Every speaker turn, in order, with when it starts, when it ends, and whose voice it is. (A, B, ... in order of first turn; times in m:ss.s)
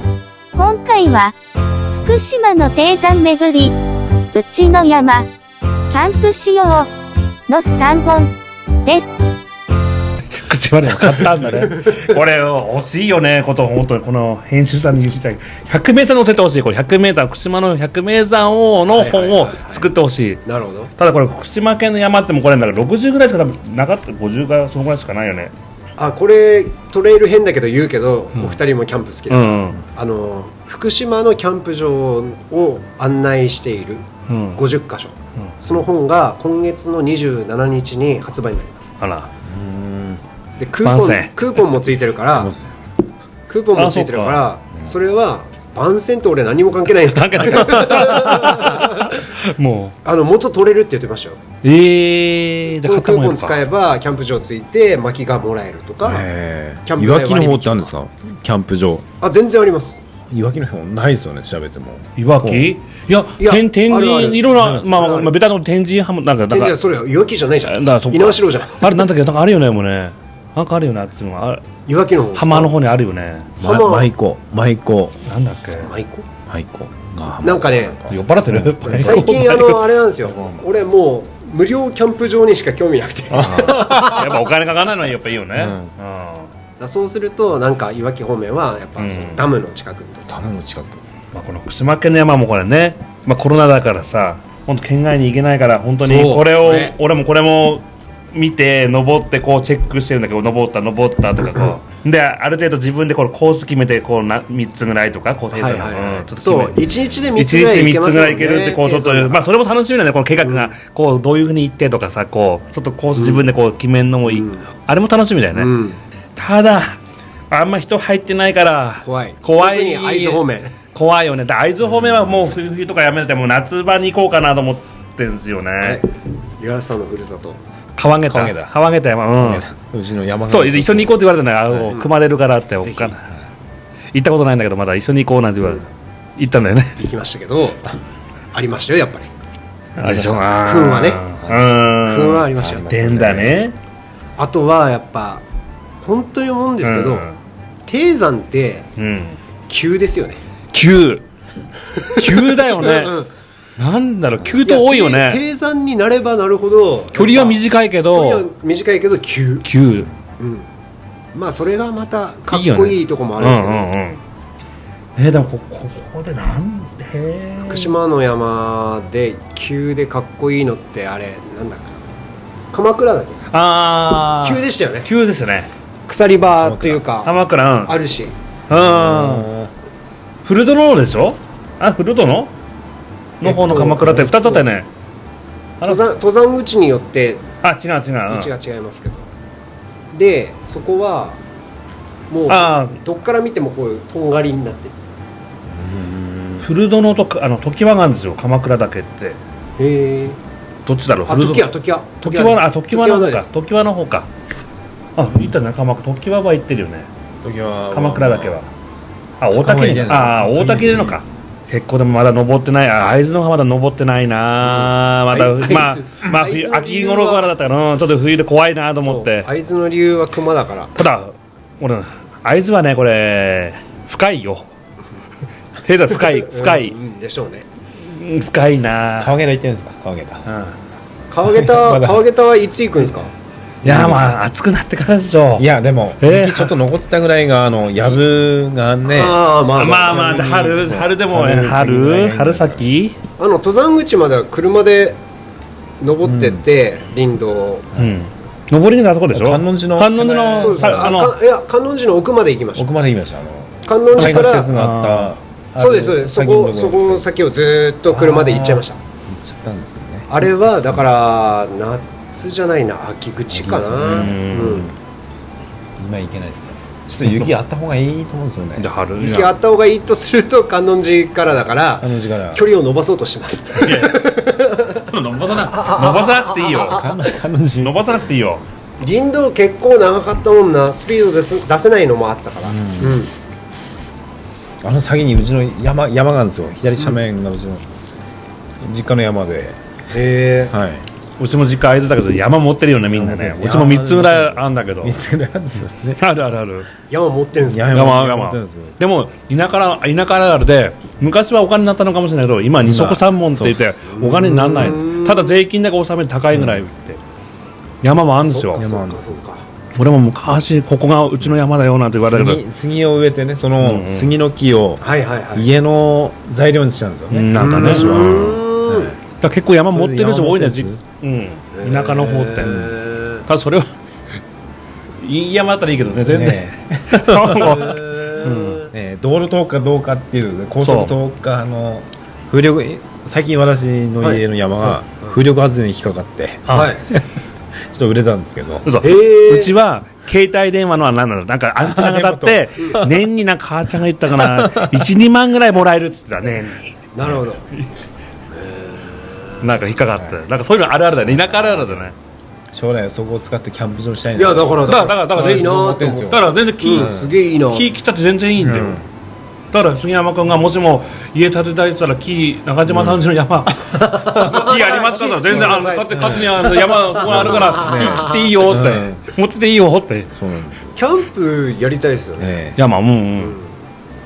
0:00.5-0:01.3 A
0:01.9-0:03.8 A
0:04.3-0:05.3 A
0:05.9-0:06.9 A
0:07.5-0:08.3 A
0:08.8-0:09.2 A
0:10.3-0:20.4 B
0:18.9-0:19.9 C
0:20.4-0:20.9 C
0:21.0-0:25.5 B
0:26.0-0:38.9 C
0:29.3-0:29.8 B
0:34.3-0:34.6 B
0:39.0-0:39.3 B
0:39.4-0:40.2 D
0:40.6-0:42.5 C
0:40.8-0:41.6 B
0:42.3-0:42.7 D
0:43.5-0:49.2 C
0:43.7-0:44.4 B
0:47.0-0:50.0 B
0:50.0-0:51.4 C
0:51.6-0:53.6 B
0:52.8-0:56.3 C
0:56.0-0:59.0 D
0:56.8-0:57.9 C
0:59.2-1:00.0 C
1:00.3-1:02.1 D
1:02.2-1:06.8 B
1:03.4-1:05.3 C
1:04.5-1:05.0 D
1:06.5-1:09.0 C
1:07.6-1:11.6 B
1:11.8-1:12.8 C
1:12.3-1:13.6 B
1:13.6-1:14.1 C
1:13.6-1:15.2 D
1:15.2-1:15.9 B
1:15.8-1:16.3 C
1:16.5-1:19.5 D
1:17.4-1:18.0 C
1:18.1-1:19.8 B
1:18.8-1:24.4 C
1:20.2-1:20.6 D
1:23.3-1:24.2 D
1:23.3-1:26.5 B
1:25.5-1:25.9 D
1:26.8-1:30.4 C
1:29.0-1:29.4 B
1:30.3-1:31.0 D
1:31.3-1:55.7 B
1:36.0-1:37.0 C
1:41.4-1:41.7 C
1:45.5-1:49.4 C
1:50.4-1:50.7 C
1:53.1-1:53.5 C
1:54.2-1:54.7 C
1:55.5-1:56.0 C
1:56.4-1:57.0 B
1:57.5-2:00.4 B
1:59.0-2:00.7 C
2:00.9-2:06.0 B
2:05.8-2:06.1 C
2:06.6-2:07.6 C
2:08.0-2:09.7 B
2:08.3-2:08.7 D
2:09.4-2:11.2 D
2:10.5-2:13.2 B
2:12.8-2:13.1 C
2:14.1-2:15.8 B
2:16.4-2:17.0 B
2:17.0-2:17.9 C
2:18.5-2:19.3 C
2:20.0-2:20.5 D
2:20.0-2:23.8 B
2:20.6-2:22.9 C
2:22.6-2:23.6 D
2:24.4-2:25.4 C
2:26.0-2:27.3 C
2:26.8-2:27.4 B
2:27.9-2:28.9 C
2:29.0-2:29.4 B
2:29.7-2:30.4 C
2:30.7-2:31.2 B
2:31.9-2:33.3 C
2:32.1-2:33.2 B
2:33.8-2:35.4 B
2:34.6-2:39.7 C
2:37.1-2:38.5 B
2:39.6-2:40.1 B
2:40.4-2:40.7 C
2:41.3-2:43.9 C
2:42.5-2:44.2 B
2:45.2-2:47.9 B
2:47.6-2:52.0 C
2:52.7-2:53.4 C
2:53.5-2:55.7 B
2:54.4-2:55.1 C
2:56.0-2:58.4 C
2:56.6-2:57.0 D
2:57.2-2:58.0 B
2:58.7-2:59.5 B
2:58.7-2:59.7 D
3:00.4-3:02.5 B
3:03.4-3:04.9 B
3:03.4-3:04.7 C
3:05.8-3:07.4 C
3:07.6-3:08.5 B
3:08.3-3:09.3 C
3:10.1-3:11.4 C
3:12.3-3:14.9 C
3:12.5-3:13.0 B
3:15.7-3:16.7 D
3:16.6-3:19.4 B
3:19.8-3:20.4 C
3:20.8-3:24.3 B
3:21.2-3:23.5 C
3:25.2-3:27.1 B
3:27.4-3:28.6 D
3:27.9-3:28.7 B
3:29.4-3:39.5 B
3:29.5-3:31.2 D
3:34.7-3:37.5 C
3:39.0-3:40.9 C
3:40.9-3:44.7 B
3:45.8-3:46.9 B
3:46.2-3:47.7 C
3:48.0-3:49.3 B
3:49.2-3:50.4 D
3:50.4-3:50.7 B
3:51.3-3:53.3 C
3:51.4-3:52.2 D
3:53.8-3:54.4 D
3:53.8-3:55.7 B
3:55.6-3:59.5 D
3:56.2-3:56.7 B
3:59.0-4:00.9 C
3:59.7-4:03.2 B
4:00.2-4:02.9 D
4:03.4-4:05.2 C
4:06.0-4:07.9 C
4:06.2-4:06.6 D
4:07.9-4:11.4 B
4:09.3-4:11.2 D
4:10.5-4:12.9 C
4:12.7-4:17.3 D
4:13.8-4:14.7 C
4:14.2-4:15.3 B
4:15.7-4:19.0 C
4:18.1-4:20.4 D
4:20.3-4:24.9 C
4:23.5-4:24.9 D
4:24.1-4:24.9 B
4:26.0-4:28.9 D
4:27.1-4:27.5 B
4:28.8-4:29.5 B
4:29.2-4:37.0 C
4:32.0-4:32.6 D
4:33.7-4:37.1 B
4:36.8-4:38.1 D
4:37.7-4:38.6 B
4:39.0-4:43.3 C
4:42.6-4:43.2 D
4:44.8-4:47.8 D
4:48.8-4:49.8 D
4:50.1-4:50.7 C
4:50.7-4:51.0 D
4:51.4-4:55.2 B
4:53.1-4:56.2 D
4:56.2-4:56.9 B
4:57.1-4:58.0 C
4:57.7-4:59.0 D
4:57.9-5:07.2 B
5:02.8-5:03.9 D
5:04.1-5:05.6 C
5:06.5-5:06.8 D
5:08.0-5:08.8 B
5:08.4-5:09.6 C
5:08.7-5:09.3 D
5:09.9-5:12.6 B
5:12.2-5:19.2 D
5:13.8-5:14.3 B
5:15.0-5:15.7 C
5:17.3-5:18.6 B
5:17.5-5:19.2 C
5:19.4-5:22.9 B
5:19.9-5:21.0 D
5:21.7-5:23.4 C
5:22.6-5:23.0 D
5:23.4-5:23.9 B
5:25.2-5:28.9 B
5:26.2-5:28.3 D
5:27.6-5:28.8 C
5:28.8-5:37.2 D
5:30.8-5:31.2 B
5:36.7-5:37.0 B
5:36.7-5:37.0 C
5:37.8-5:38.9 D
5:38.8-5:47.1 B
5:39.0-5:39.7 C
5:41.8-5:43.2 D
5:44.4-5:45.0 D
5:47.1-5:47.6 C
5:48.5-5:49.7 C
5:49.6-5:52.1 B
5:50.1-5:50.4 D
5:51.2-5:52.1 D
5:52.7-5:57.3 D
5:54.4-5:57.9 C
5:54.8-5:57.2 B
5:57.7-5:59.0 B
5:58.6-5:59.0 D
5:59.7-6:10.3 B
6:02.9-6:03.3 D
6:03.9-6:08.4 C
6:06.2-6:06.5 D
6:07.2-6:09.3 D
6:10.3-6:11.0 D
6:10.9-6:12.6 C
6:12.4-6:12.8 D
6:12.8-6:13.6 B
6:13.4-6:13.8 C